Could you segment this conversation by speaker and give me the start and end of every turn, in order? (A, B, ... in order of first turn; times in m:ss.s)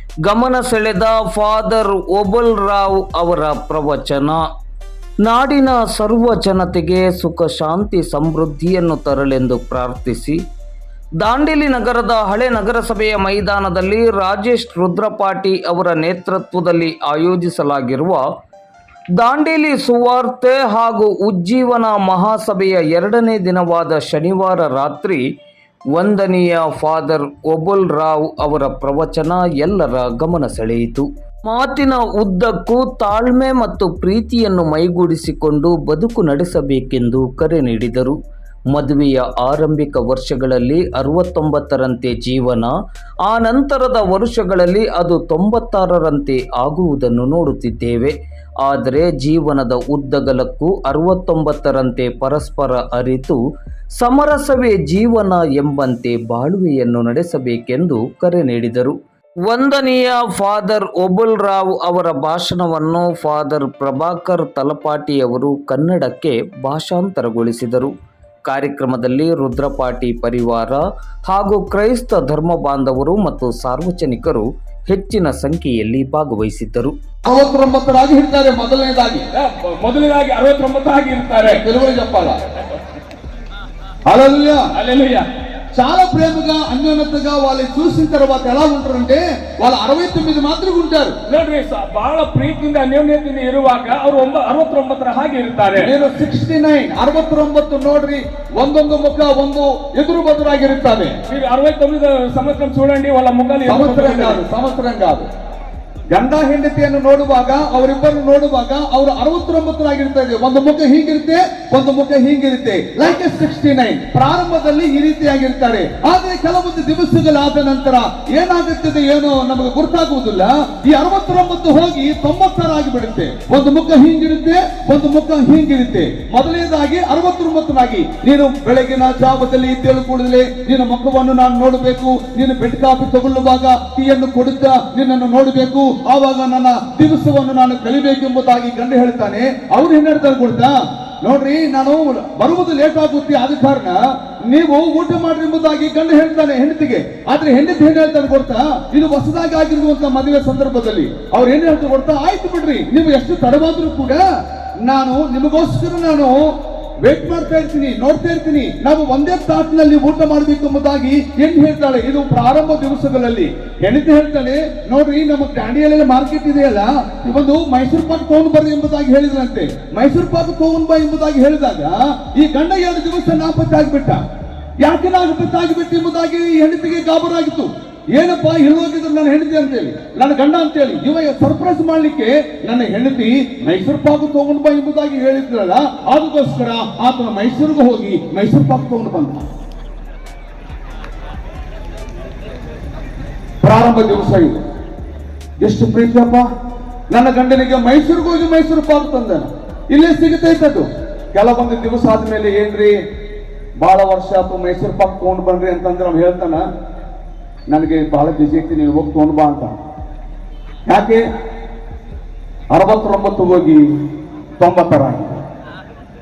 0:00.3-0:04.4 A
0:05.2-0:10.4 A
0:11.2-0:18.2 A
0:19.2-0:25.2 A
0:25.9-0:38.2 A
0:38.7-0:42.7 A
0:43.3-0:53.4 A
0:54.0-1:07.9 A
1:08.4-1:16.9 A
1:17.2-1:19.2 B
1:19.3-1:21.6 C
1:21.4-1:22.4 B
1:24.1-1:24.7 B
1:24.7-1:25.2 C
1:25.7-1:31.2 B
1:31.3-1:35.9 C
1:35.8-1:41.2 B
1:41.3-1:44.4 C
1:43.7-1:45.3 B
1:46.1-2:34.2 B
2:34.8-2:36.4 B
2:37.0-2:54.2 B
2:54.8-3:09.4 B
3:13.6-3:14.6 B
3:15.6-3:16.4 B
3:17.1-3:22.9 B
3:23.8-3:26.6 B
3:27.7-3:29.8 B
3:30.9-3:31.2 B
3:32.7-3:33.8 B
3:34.6-3:35.4 B